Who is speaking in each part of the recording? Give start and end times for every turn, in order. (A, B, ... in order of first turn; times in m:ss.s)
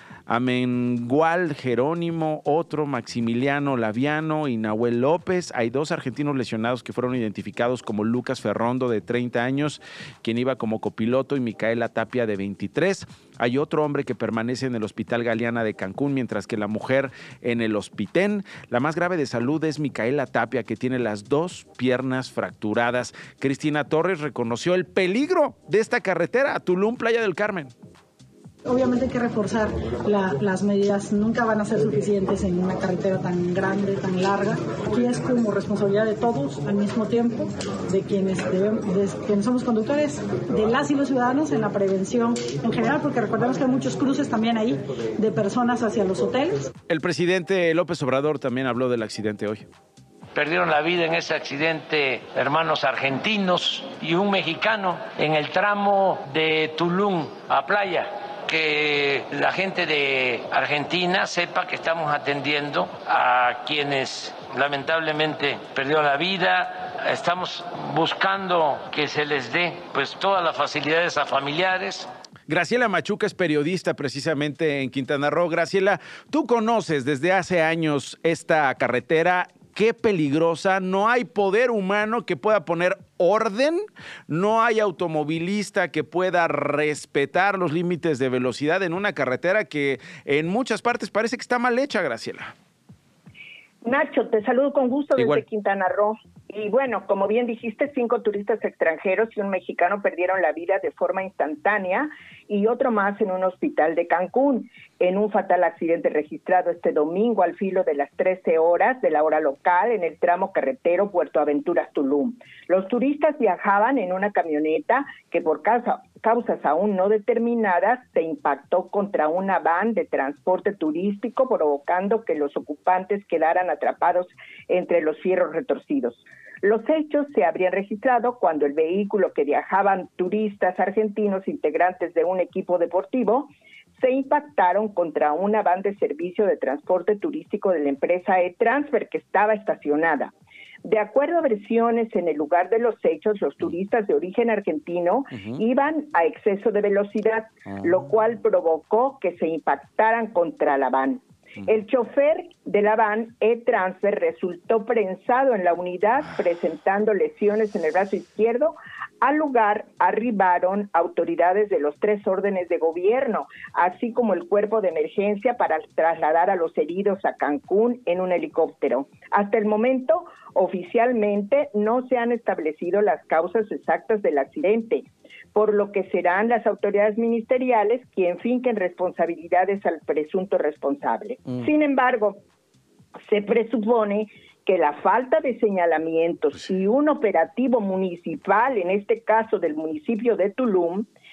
0:00.3-0:27.7 A
0:28.6-0:46.6 B
0:46.9-0:49.6 A
0:50.3-1:12.1 C
1:12.5-1:32.5 A
1:33.8-2:20.3 D
1:35.2-1:35.4 A
2:20.8-3:02.4 D
2:25.3-2:25.6 A
3:03.2-3:11.1 D